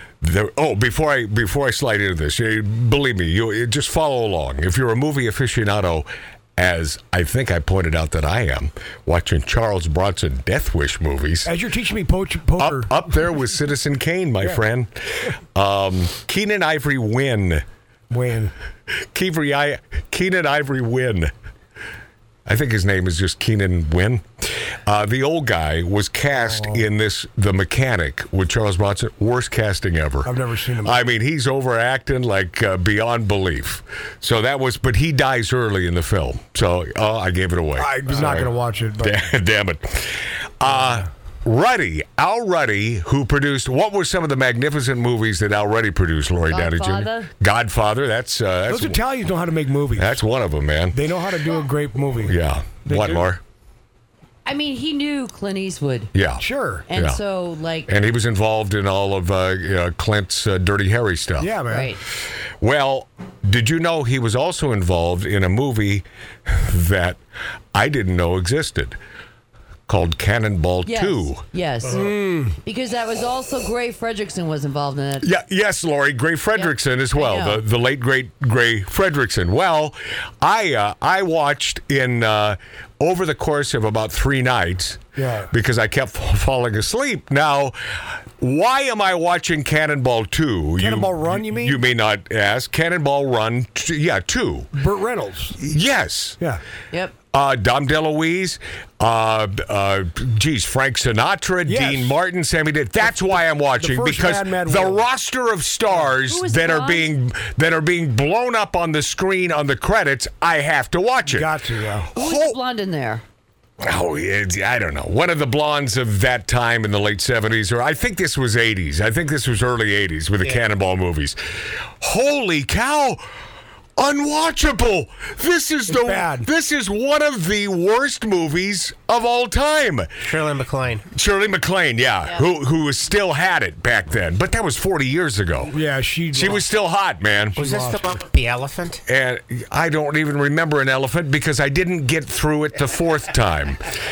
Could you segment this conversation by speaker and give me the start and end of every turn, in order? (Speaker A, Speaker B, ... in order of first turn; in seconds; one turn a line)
Speaker A: 0.2-11.5
Speaker B: 11.4-12.9
Speaker A: 12.6-17.6
Speaker B: 18.1-18.5
Speaker A: 19.1-21.3
Speaker A: 22.4-49.0
Speaker B: 26.4-26.8
Speaker B: 30.2-31.0
Speaker B: 37.8-39.2
Speaker C: 46.5-47.3
Speaker B: 48.7-50.2
Speaker A: 50.0-51.0
Speaker B: 50.9-52.3
Speaker A: 52.2-53.4
Speaker B: 52.9-53.2
Speaker C: 54.4-56.1
Speaker A: 56.1-57.2
Speaker B: 56.4-56.8
Speaker C: 56.9-57.9
Speaker A: 57.9-61.6
Speaker B: 61.4-61.9
Speaker C: 61.7-62.0
Speaker A: 62.6-67.2
Speaker A: 67.7-69.0
Speaker A: 69.9-71.4
Speaker C: 70.8-72.1
Speaker B: 71.9-72.5
Speaker C: 72.6-75.3
Speaker A: 75.2-87.8
Speaker C: 76.6-77.6
Speaker B: 85.2-85.5
Speaker A: 88.4-94.7
Speaker B: 90.8-91.8
Speaker B: 94.7-95.6
Speaker A: 95.6-96.4
Speaker A: 97.3-111.5
Speaker B: 101.7-102.1
Speaker B: 103.8-105.0
Speaker C: 106.2-107.1
Speaker B: 111.2-112.1
Speaker A: 112.1-112.6
Speaker C: 112.1-113.2
Speaker A: 113.8-121.4
Speaker A: 122.0-123.2
Speaker A: 124.0-130.2
Speaker B: 125.9-126.5
Speaker D: 130.2-131.1
Speaker A: 131.1-135.7
Speaker B: 135.7-136.6
Speaker A: 136.3-137.6
Speaker D: 137.6-139.0
Speaker B: 137.6-138.2
Speaker A: 139.1-143.8